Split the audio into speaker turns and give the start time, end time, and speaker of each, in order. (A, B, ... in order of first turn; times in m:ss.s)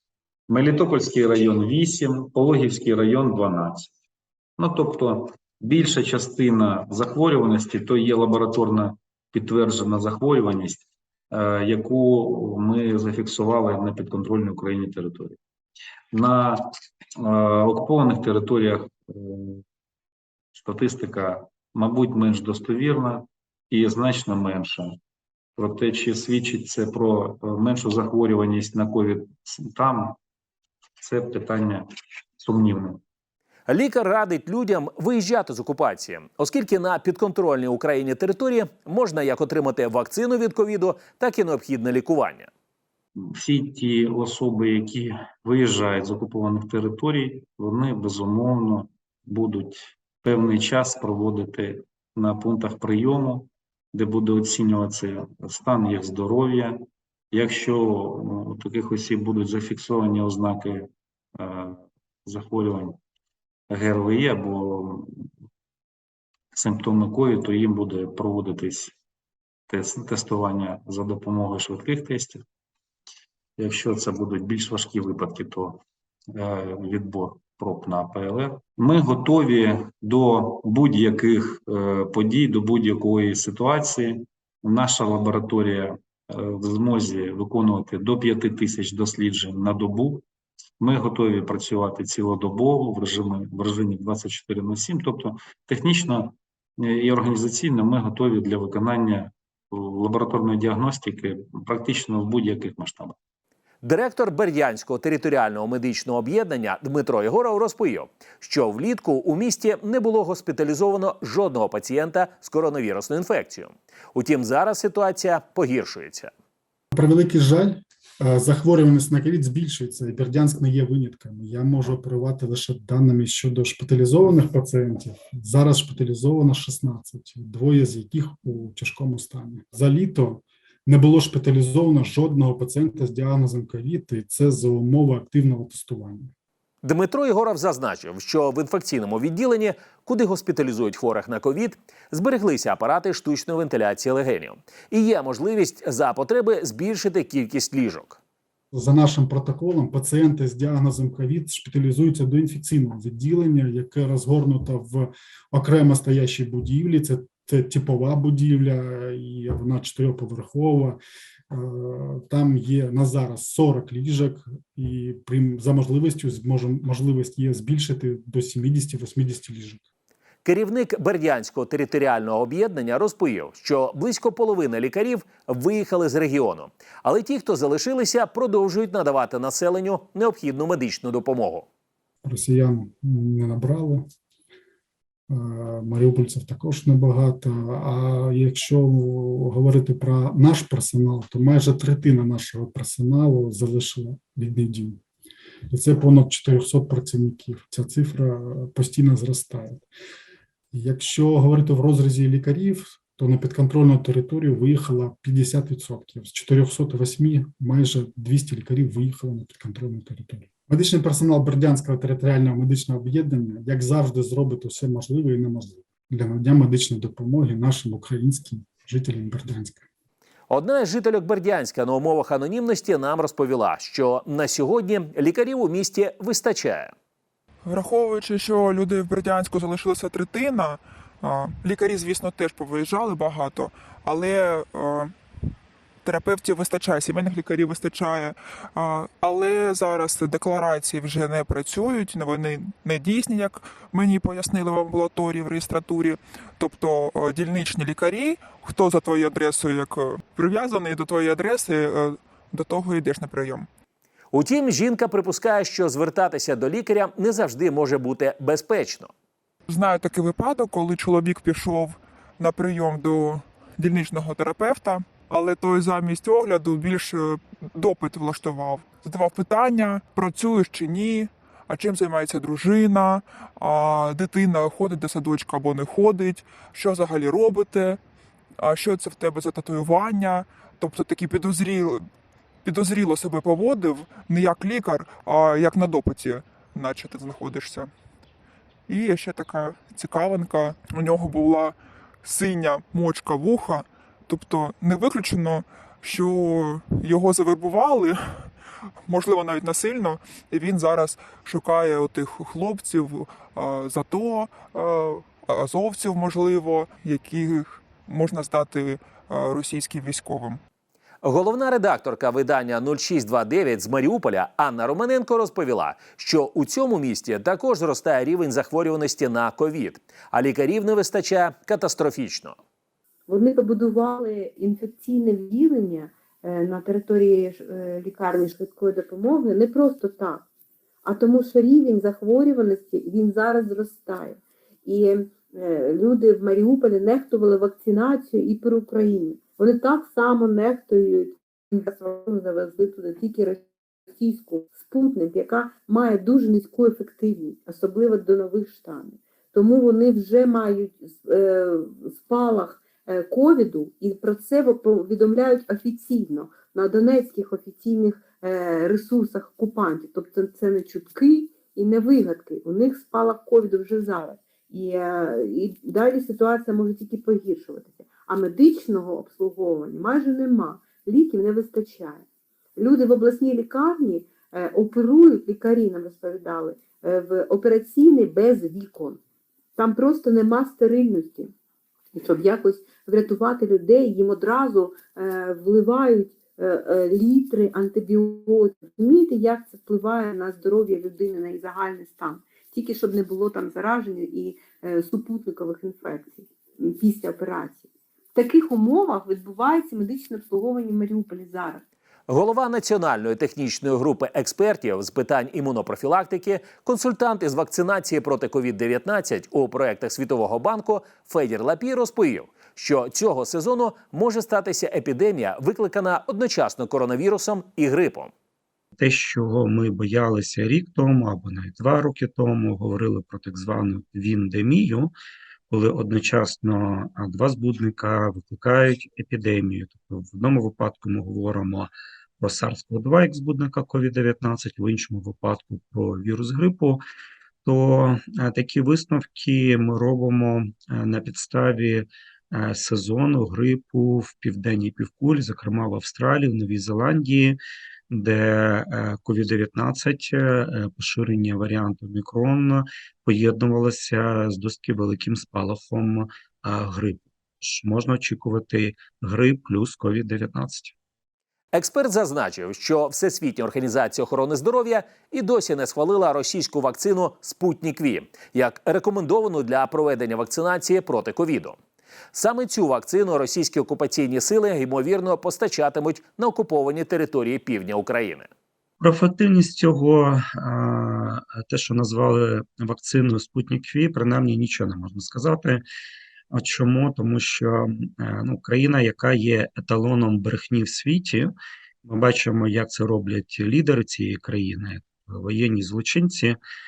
0:00.5-0:03.9 A
0:04.6-0:15.4 A
0:16.1-0:16.7 A
0:17.2-0:19.6 A
0:20.6-0:25.0 A
0:25.6-0:30.2 A
0:31.0-0:31.8 A
0:32.4-0:33.0 A
0:33.7-0:42.5 B
0:43.2-1:03.0 A
1:03.7-1:05.1 A
1:06.5-1:09.0 A
1:09.7-1:12.4 A
1:13.6-1:15.8 A
1:16.4-1:30.2 A
1:30.8-1:43.2 A
1:43.8-1:56.3 B
1:56.9-2:16.3 C
2:16.8-2:28.2 B
2:28.7-2:41.0 C
2:41.5-2:49.8 C
2:50.4-3:01.7 B
3:02.2-3:04.0 C
3:05.3-3:15.0 C
3:15.7-3:19.9 C
3:20.7-3:39.8 C
3:40.5-3:46.9 B
3:47.6-3:55.5 D
3:56.0-4:13.7 D
4:14.3-4:19.1 B
4:19.7-4:38.0 D
4:38.6-4:42.1 D
4:42.6-4:47.9 D
4:48.9-5:10.6 D
5:11.2-5:22.6 B
5:23.3-5:30.4 E
5:31.0-6:12.2 E
6:12.8-6:19.2 E
6:19.8-6:21.5 E
6:22.1-6:41.8 E
6:42.3-6:58.3 B
6:59.0-7:05.1 F
7:05.7-7:17.0 F
7:17.6-7:27.6 F
7:28.1-7:40.9 F
7:41.7-7:51.8 B
7:52.3-7:58.5 B
7:59.0-8:05.8 F
8:06.5-8:16.6 F